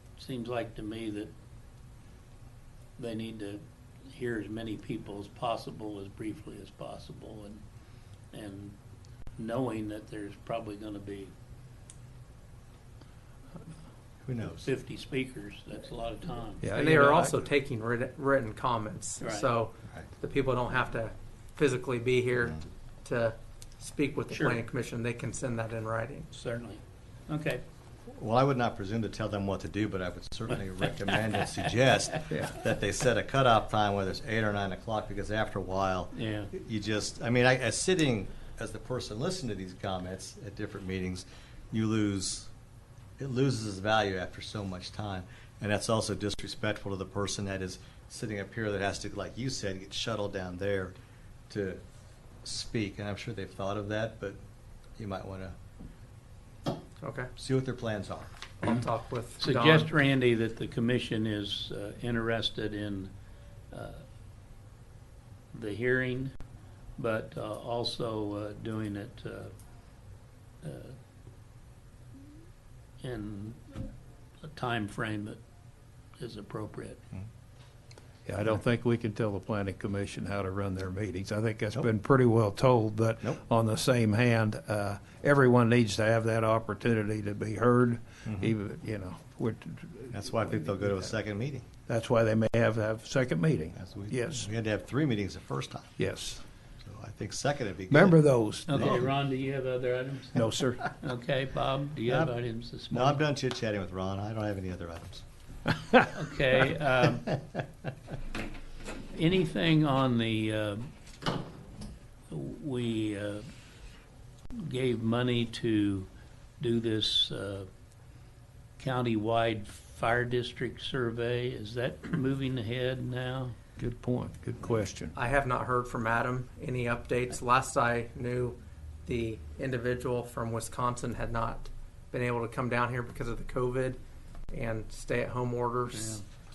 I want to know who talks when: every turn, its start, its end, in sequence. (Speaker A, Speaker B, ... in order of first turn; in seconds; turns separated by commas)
Speaker A: 0.2-1.3, Speaker A: 3.0-7.6, Speaker A: 8.3-8.8, Speaker A: 9.4-11.3, Speaker B: 14.2-14.7, Speaker A: 14.6-16.7, Speaker C: 16.6-17.4, Speaker D: 16.7-26.3, Speaker A: 19.2-19.5, Speaker A: 24.3-24.6, Speaker A: 26.3-27.6, Speaker B: 28.1-42.5, Speaker A: 36.1-36.5, Speaker B: 43.2-50.9, Speaker B: 51.5-51.8, Speaker B: 52.4-54.4, Speaker B: 55.0-55.5, Speaker D: 57.0-57.3, Speaker B: 57.4-58.3, Speaker D: 58.6-59.9, Speaker A: 59.4-63.1, Speaker A: 63.7-64.0, Speaker A: 65.5-66.3, Speaker A: 67.0-69.5, Speaker A: 70.6-71.0, Speaker A: 73.0-73.9, Speaker A: 74.4-75.4, Speaker A: 76.2-77.0, Speaker C: 78.2-90.9, Speaker B: 90.1-91.6, Speaker C: 91.9-94.5, Speaker B: 93.8-96.0, Speaker C: 96.0-96.4, Speaker B: 96.8-99.1, Speaker C: 97.9-99.0, Speaker A: 98.7-103.2, Speaker C: 100.3-100.8, Speaker B: 102.1-102.4, Speaker B: 102.9-105.2, Speaker A: 106.1-107.3, Speaker A: 109.1-110.9, Speaker A: 112.3-113.5, Speaker A: 114.5-116.1, Speaker A: 116.6-117.7, Speaker A: 118.8-123.5, Speaker C: 123.8-125.1, Speaker D: 125.1-134.0, Speaker D: 134.5-136.2, Speaker A: 135.9-136.2